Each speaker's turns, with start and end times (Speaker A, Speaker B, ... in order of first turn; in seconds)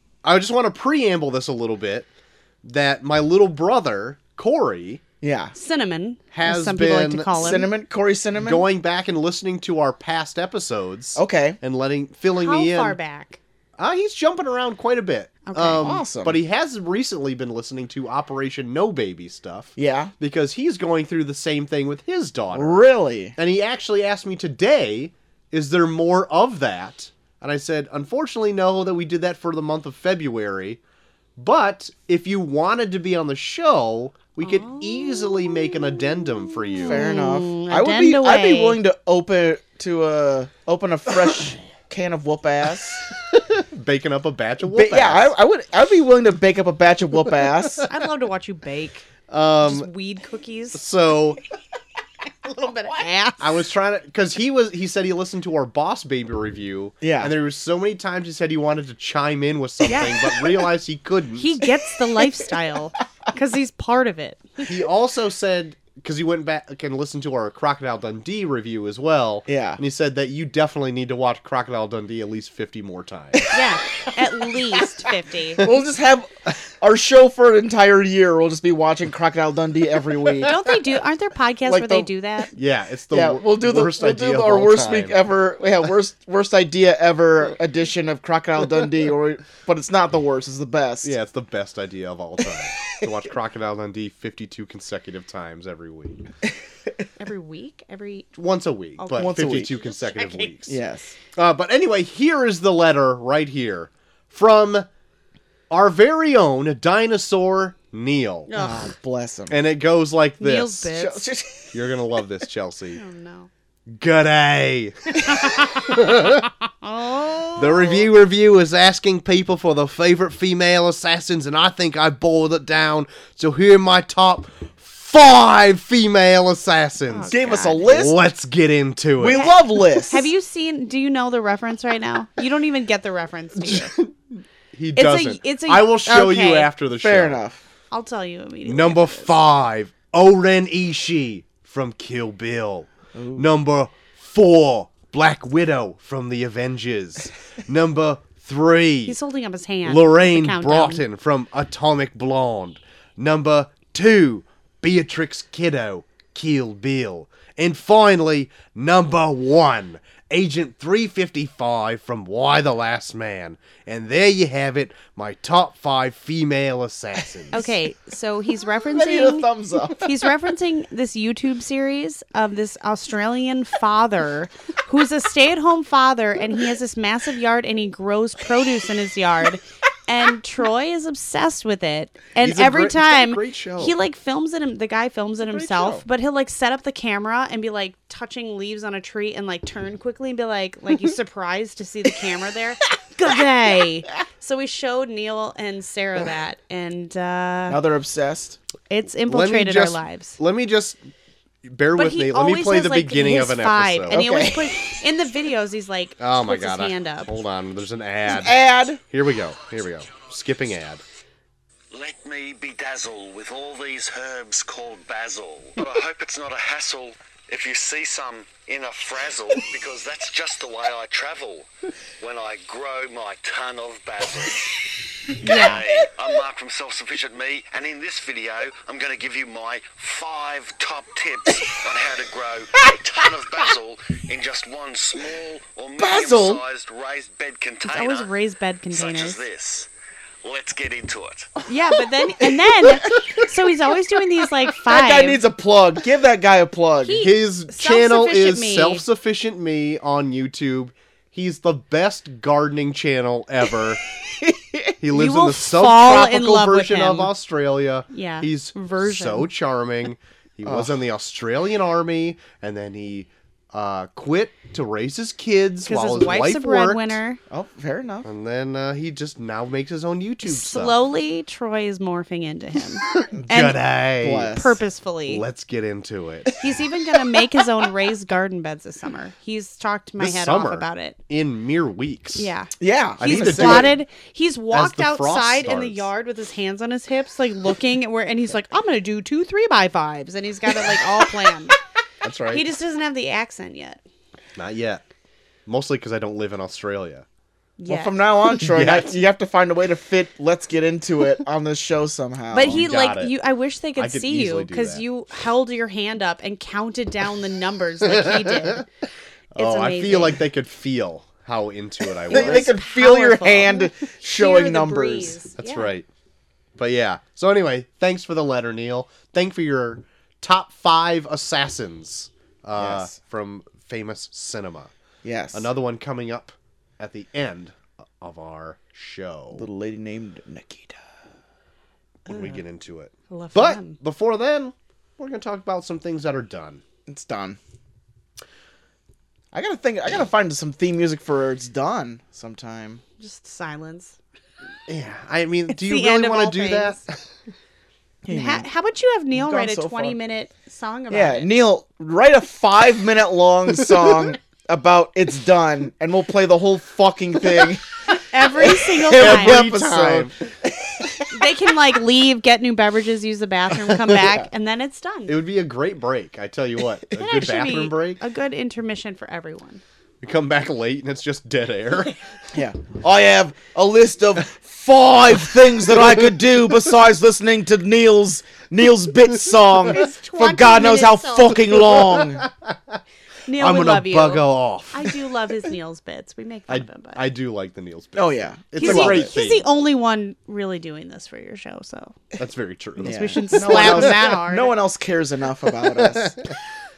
Speaker A: 0.2-2.1, 2.6-5.0, 6.3-7.6, 8.3-13.0, 13.8-22.8, 23.4-30.8, 31.4-37.1, 43.2-45.3, 49.3-49.9, 50.7-51.4, 53.4-61.6, 64.6-73.6, 82.5-85.2, 91.0-96.3, 98.3-100.8, 101.3-104.9, 105.7-108.5, 109.5-110.9, 111.7-113.0, 113.9-116.5, 117.6-129.5, 133.6-137.4, 138.6-149.2, 149.8-167.6, 182.4-183.9, 185.4-186.0, 199.3-201.0, 201.6-204.2, 206.2-211.0, 247.2-254.0, 255.0-267.2, 268.2-270.9, 273.3-274.6, 275.3-276.5, 280.2-282.5, 283.2-284.0, 284.7-286.1, 292.2-292.6, 294.6-295.0, 295.6-297.2, 298.6-299.1, 302.6-303.3, 303.9-305.0, 308.0-308.8, 309.5-312.7, 315.6-316.1, 316.8-324.9, 325.5-329.7, 332.2-336.8, 344.9-347.3, 358.9-360.5, 363.8-364.4, 365.3-368.2, 370.2-372.1, 375.6-376.3, 381.8-383.0, 383.6-385.2, 386.7-389.7, 392.4-394.3, 395.8-396.5
Speaker B: 5.2-5.5, 7.3-8.7, 11.2-11.6, 15.8-16.4, 19.8-20.1, 22.5-23.4, 36.9-43.1, 44.6-47.9, 57.0-57.3, 69.5-69.8, 75.6-80.6, 81.7-82.1, 83.1-91.1, 99.2-99.7, 100.7-101.1, 108.5-109.6, 110.9-111.8, 127.3-128.2, 129.2-130.3, 137.0-137.6, 143.1-143.5, 168.9-170.2, 197.7-198.6, 204.1-205.0, 208.2-209.0, 225.5-225.8, 236.0-236.6, 242.1-243.4, 244.8-247.2, 254.3-254.9, 260.6-260.9, 267.5-268.3, 274.2-274.8, 282.8-283.9, 297.9-302.8, 312.3-315.4, 322.8-323.1, 325.2-325.7, 329.5-331.0, 337.1-337.6, 339.5-343.0, 348.2-348.6, 349.3-350.2, 351.1-357.8, 358.6-361.2, 372.5-382.5, 388.1-389.3, 393.0-396.4
Speaker C: 5.5-7.7, 12.3-13.4, 15.4-15.9, 34.4-35.8, 36.6-38.8, 47.9-50.8, 52.5-53.6, 59.9-60.6, 61.4-64.7, 73.5-75.6, 80.4-82.5, 97.2-98.3, 99.0-100.7, 108.5-108.9, 110.4-111.2, 112.9-113.5, 115.2-118.0, 127.1-127.9, 129.2-133.9, 134.9-136.7, 137.9-139.3, 149.1-151.0, 167.5-197.8, 198.9-200.4, 201.9-207.4, 225.4-225.8, 237.8-239.4, 241.7-245.4, 247.0-249.0, 255.1-257.3, 258.1-259.5, 265.8-267.4, 270.4-273.8, 274.5-275.4, 276.6-281.2, 282.4-291.8, 292.5-294.0, 297.8-298.5, 302.5-308.9, 309.6-310.4, 312.3-315.9, 333.3-334.0, 343.2-344.2, 345.7-347.0, 348.3-351.6, 358.2-359.7, 361.3-365.3, 367.1-369.8, 379.8-381.9, 383.4-387.2, 388.8-392.1, 393.0-394.8
Speaker D: 211.9-224.8, 225.4-238.3, 238.9-239.9, 240.4-241.5